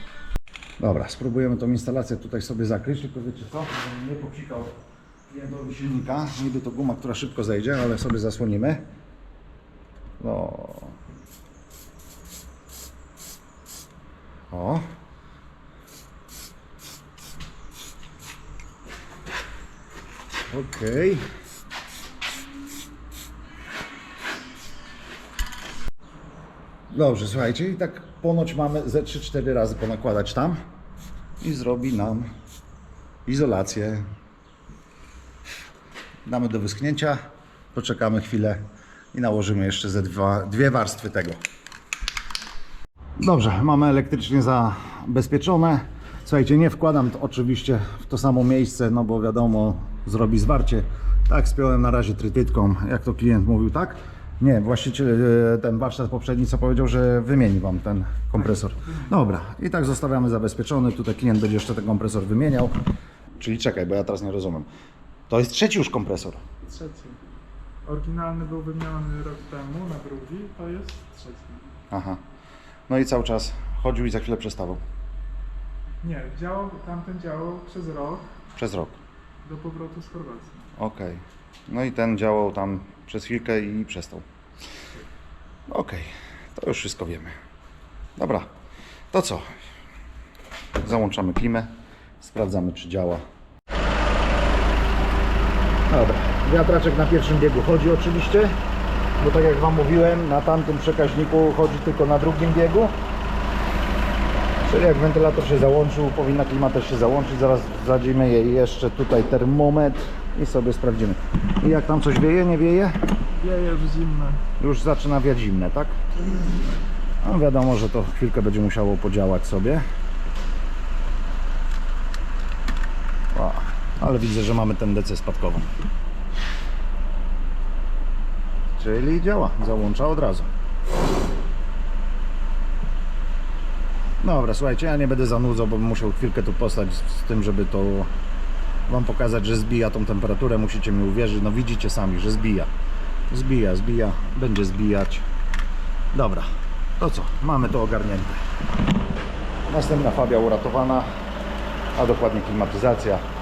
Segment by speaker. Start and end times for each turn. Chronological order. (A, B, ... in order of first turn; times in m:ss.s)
0:00.8-0:04.7 A
0:05.3-0:08.8 A
0:10.2-0:10.9 A
0:14.5-0:14.8 A
0:20.5-0:21.2 A
0:26.9-0:30.6 A
0:31.4-0:32.3 A
0:33.2-0:34.0 A
0:36.2-0:37.2 A
0:37.7-0:38.6 A
0:39.1-0:41.4 A
0:43.2-1:02.8 A
0:58.8-0:59.1 B
1:03.4-1:04.7 A
1:05.3-1:06.4 A
1:06.6-1:07.2 B
1:07.8-1:11.7 B
1:11.9-1:12.2 A
1:12.9-1:14.8 A
1:16.0-1:18.3 B
1:18.6-1:19.0 A
1:19.4-1:20.6 B
1:20.8-1:24.2 A
1:25.7-1:27.3 A
1:28.2-1:28.5 A
1:29.1-1:29.4 A
1:30.8-1:33.2 A
1:35.9-1:38.5 A
1:39.2-1:42.9 A
1:44.6-1:52.9 A
1:53.4-1:54.4 B
1:54.6-1:56.0 A
1:57.2-1:59.8 A
2:03.3-2:05.7 A
2:08.8-2:10.5 A
2:14.2-2:18.1 A
2:18.9-2:22.7 A
2:23.3-2:25.2 A
2:26.1-2:28.4 A
2:29.7-2:31.1 A
2:31.9-2:33.2 A